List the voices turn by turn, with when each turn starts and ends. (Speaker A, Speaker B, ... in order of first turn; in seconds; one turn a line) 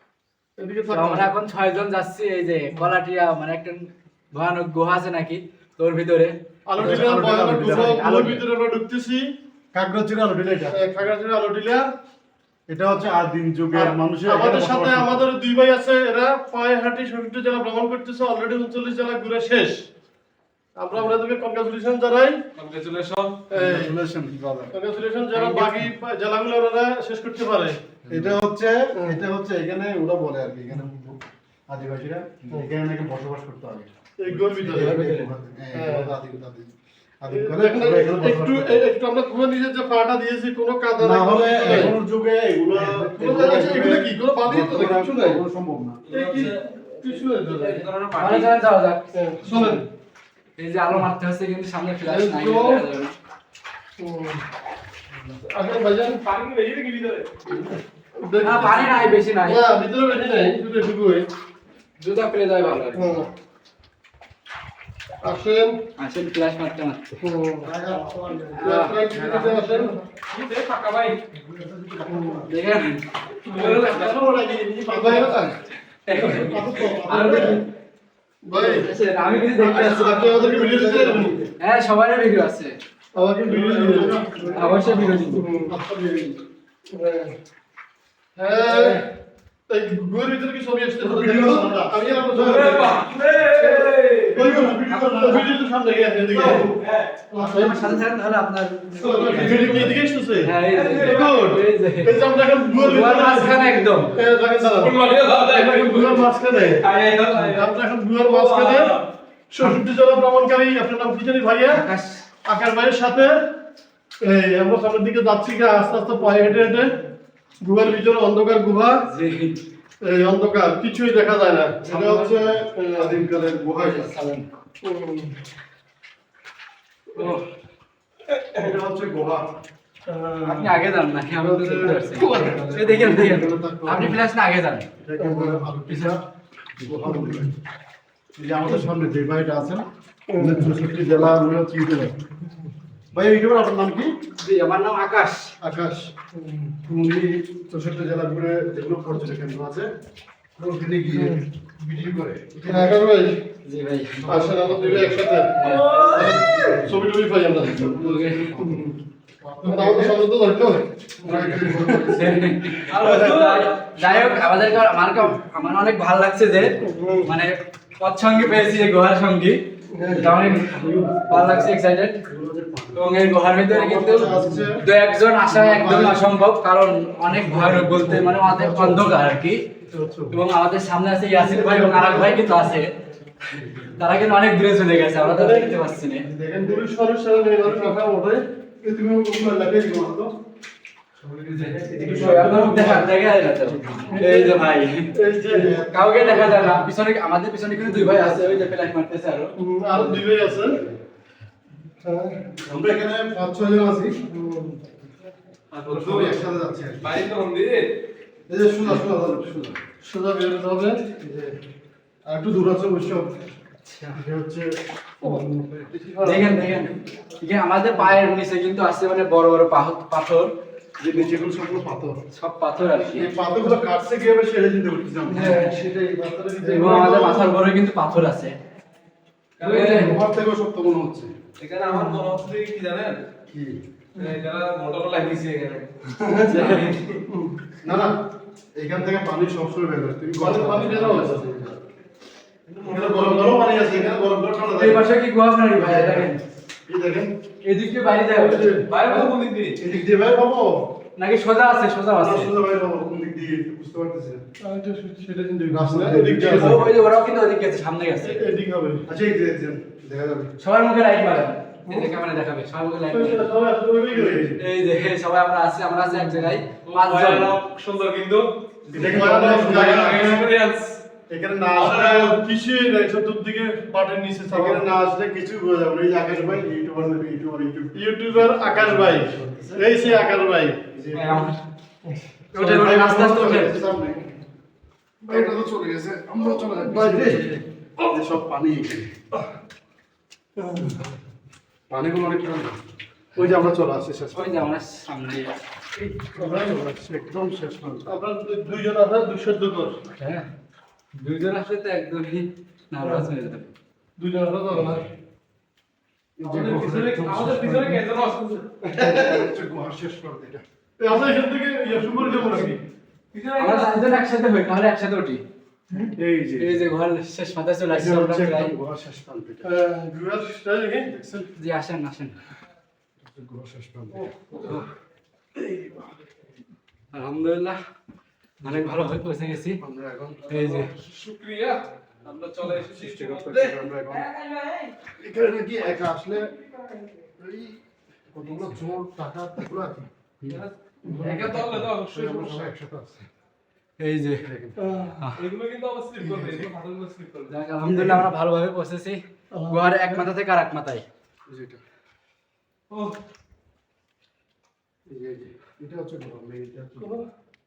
Speaker A: 0.6-1.3
Speaker B: 0.9-8.4
Speaker A: 6.7-9.2
Speaker C: 6.8-8.0
Speaker C: 9.7-10.8
Speaker A: 10.7-11.9
Speaker C: 12.7-15.2
Speaker A: 13.7-19.8
Speaker A: 20.8-22.4
Speaker D: 22.6-23.4
Speaker A: 23.5-24.0
Speaker C: 23.5-24.7
Speaker A: 24.7-27.8
Speaker C: 25.4-25.9
Speaker C: 28.1-38.8
Speaker A: 34.2-35.0
Speaker B: 34.8-35.3
Speaker A: 35.8-36.1
Speaker A: 37.3-42.0
Speaker C: 41.0-46.5
Speaker A: 42.8-45.4
Speaker D: 46.1-48.5
Speaker A: 46.1-47.9
Speaker B: 48.2-49.8
Speaker A: 49.1-49.8
Speaker B: 50.6-53.1
Speaker A: 52.0-52.9
Speaker A: 54.0-54.4
Speaker A: 55.4-56.2
Speaker D: 56.1-57.3
Speaker A: 58.1-61.3
Speaker B: 58.4-59.6
Speaker B: 62.0-63.2
Speaker A: 63.0-63.3
Speaker A: 65.2-65.8
Speaker B: 66.0-67.1
Speaker A: 67.2-67.7
Speaker C: 67.6-70.1
Speaker B: 68.6-68.9
Speaker A: 68.6-69.9
Speaker D: 70.3-71.2
Speaker C: 71.3-72.5
Speaker A: 72.1-72.5
Speaker B: 72.5-73.0
Speaker D: 73.5-74.2
Speaker A: 73.5-73.9
Speaker C: 73.5-75.5
Speaker A: 74.8-75.5
Speaker B: 76.1-77.7
Speaker C: 76.2-77.6
Speaker A: 76.2-77.5
Speaker A: 78.4-81.4
Speaker B: 78.6-80.2
Speaker C: 79.7-81.4
Speaker B: 81.6-82.8
Speaker A: 83.1-84.5
Speaker C: 83.5-86.4
Speaker D: 84.0-85.2
Speaker B: 84.5-85.5
Speaker A: 85.3-85.8
Speaker A: 86.9-87.3
Speaker A: 88.4-89.1
Speaker A: 89.7-93.0
Speaker C: 91.0-93.0
Speaker D: 92.3-94.4
Speaker C: 93.5-95.5
Speaker A: 94.3-96.7
Speaker C: 96.3-96.7
Speaker D: 96.5-97.2
Speaker A: 97.3-97.9
Speaker C: 97.3-98.0
Speaker B: 97.4-99.8
Speaker D: 99.0-99.9
Speaker A: 99.0-106.9
Speaker C: 99.4-99.8
Speaker B: 100.4-102.2
Speaker D: 100.7-101.5
Speaker B: 102.7-104.2
Speaker D: 104.6-107.7
Speaker B: 107.3-107.7
Speaker A: 107.5-109.0
Speaker D: 108.2-109.1
Speaker A: 109.5-111.8
Speaker B: 111.7-112.2
Speaker A: 112.5-113.3
Speaker A: 114.2-117.0
Speaker A: 117.6-119.0
Speaker B: 119.1-119.6
Speaker A: 120.0-123.2
Speaker C: 121.8-124.1
Speaker B: 123.8-124.5
Speaker A: 124.8-125.3
Speaker B: 127.2-127.5
Speaker C: 128.6-129.6
Speaker A: 130.1-130.8
Speaker B: 130.4-134.9
Speaker A: 131.4-132.8
Speaker C: 131.6-134.2
Speaker C: 135.0-136.2
Speaker A: 135.2-135.7
Speaker B: 135.9-136.2
Speaker C: 136.8-137.5
Speaker A: 137.1-137.4
Speaker C: 138.4-139.8
Speaker A: 140.3-140.7
Speaker C: 140.4-142.1
Speaker C: 143.1-144.1
Speaker B: 144.4-145.6
Speaker C: 145.6-146.1
Speaker A: 146.3-146.9
Speaker C: 146.9-149.9
Speaker C: 150.6-153.0
Speaker A: 151.1-151.4
Speaker A: 152.7-153.4
Speaker B: 153.6-154.7
Speaker A: 154.3-158.0
Speaker C: 154.3-155.1
Speaker B: 155.5-156.2
Speaker D: 155.6-156.4
Speaker C: 155.9-157.0
Speaker C: 157.7-160.2
Speaker B: 157.8-158.6
Speaker A: 158.6-159.0
Speaker A: 159.6-162.4
Speaker C: 161.2-162.4
Speaker B: 161.8-172.2
Speaker D: 162.9-164.4
Speaker A: 163.0-163.3
Speaker A: 166.8-167.3
Speaker A: 169.9-170.3
Speaker C: 170.0-173.1
Speaker B: 172.9-179.6
Speaker C: 173.6-174.8
Speaker C: 175.5-176.3
Speaker C: 177.3-179.1
Speaker B: 180.3-182.9
Speaker C: 181.3-182.5
Speaker C: 183.5-184.1
Speaker B: 184.0-186.3
Speaker A: 185.2-185.8
Speaker C: 186.2-186.8
Speaker A: 186.6-188.4
Speaker C: 188.8-190.3
Speaker C: 191.2-194.2
Speaker B: 191.9-195.1
Speaker A: 194.1-195.7
Speaker C: 195.5-196.9
Speaker B: 195.9-200.2
Speaker C: 197.8-198.6
Speaker A: 199.6-200.8
Speaker A: 202.0-202.5
Speaker C: 202.6-204.2
Speaker A: 204.3-204.8
Speaker D: 205.7-206.4
Speaker C: 205.8-207.2
Speaker D: 207.0-207.9
Speaker C: 208.5-209.8
Speaker A: 210.0-211.1
Speaker C: 211.2-211.6
Speaker C: 212.3-213.4
Speaker B: 213.8-214.2
Speaker C: 214.2-215.8
Speaker A: 215.2-216.7
Speaker B: 216.2-220.5
Speaker C: 221.0-222.2
Speaker B: 222.3-223.3
Speaker C: 223.1-227.5
Speaker B: 225.3-225.8
Speaker B: 226.6-228.6
Speaker D: 229.6-230.2
Speaker B: 229.6-230.2
Speaker C: 229.6-231.3
Speaker D: 231.6-233.2
Speaker C: 233.5-233.8
Speaker D: 234.2-235.9
Speaker A: 236.2-237.5
Speaker B: 236.4-237.0
Speaker C: 237.8-241.8
Speaker A: 240.4-241.5
Speaker D: 242.7-243.3
Speaker C: 242.8-245.1
Speaker B: 244.7-246.4
Speaker C: 245.8-246.3
Speaker C: 246.9-247.4
Speaker B: 247.6-249.1
Speaker A: 248.3-248.8
Speaker D: 248.9-249.8
Speaker C: 249.8-251.0
Speaker B: 251.2-252.5
Speaker C: 252.1-254.4
Speaker A: 254.6-256.8
Speaker C: 255.7-257.0
Speaker B: 256.5-258.4
Speaker A: 258.2-259.0
Speaker C: 259.1-260.5
Speaker B: 260.6-263.5
Speaker A: 261.9-262.1
Speaker A: 263.1-264.6
Speaker C: 264.1-264.5
Speaker B: 264.6-267.6
Speaker D: 266.9-268.5
Speaker C: 268.9-270.5
Speaker A: 268.9-270.4
Speaker D: 269.3-271.0
Speaker C: 271.3-272.4
Speaker D: 271.8-272.4
Speaker A: 272.2-274.8
Speaker C: 274.5-280.2
Speaker A: 277.9-280.8
Speaker C: 280.9-281.5
Speaker B: 281.1-281.6
Speaker C: 282.5-284.3
Speaker B: 282.6-283.8
Speaker A: 285.2-285.5
Speaker C: 285.3-289.1
Speaker A: 286.8-287.5
Speaker A: 290.6-291.0
Speaker C: 291.9-292.8
Speaker C: 293.4-294.6
Speaker B: 294.3-295.5
Speaker A: 296.4-296.9
Speaker C: 296.4-298.1
Speaker A: 298.1-300.0
Speaker B: 300.2-300.5
Speaker B: 301.2-303.7
Speaker A: 303.0-303.3
Speaker A: 304.2-305.1
Speaker C: 306.4-308.0
Speaker D: 306.4-308.7
Speaker C: 308.9-310.6
Speaker A: 309.0-309.3
Speaker A: 311.0-312.8
Speaker D: 313.3-314.0
Speaker B: 313.6-315.4
Speaker C: 316.1-316.8
Speaker B: 316.6-318.7
Speaker C: 317.9-319.7
Speaker A: 319.6-321.1
Speaker C: 321.1-321.5
Speaker B: 321.6-322.4
Speaker C: 323.2-324.3
Speaker C: 325.6-326.1
Speaker B: 327.1-327.8
Speaker C: 328.6-329.0
Speaker B: 328.6-329.8
Speaker C: 329.8-330.4
Speaker D: 330.5-333.9
Speaker B: 330.5-330.9
Speaker C: 332.6-334.3
Speaker C: 335.2-336.5
Speaker C: 337.4-337.8
Speaker C: 338.3-340.6
Speaker D: 340.5-342.7
Speaker C: 341.1-343.2
Speaker B: 344.0-344.4
Speaker C: 344.4-344.8
Speaker A: 344.8-345.2
Speaker D: 345.4-347.5
Speaker C: 346.2-346.7
Speaker B: 347.5-351.1
Speaker A: 347.9-348.2
Speaker A: 349.5-350.2
Speaker C: 351.5-351.8
Speaker D: 352.9-353.2
Speaker C: 355.1-357.2
Speaker A: 357.0-357.2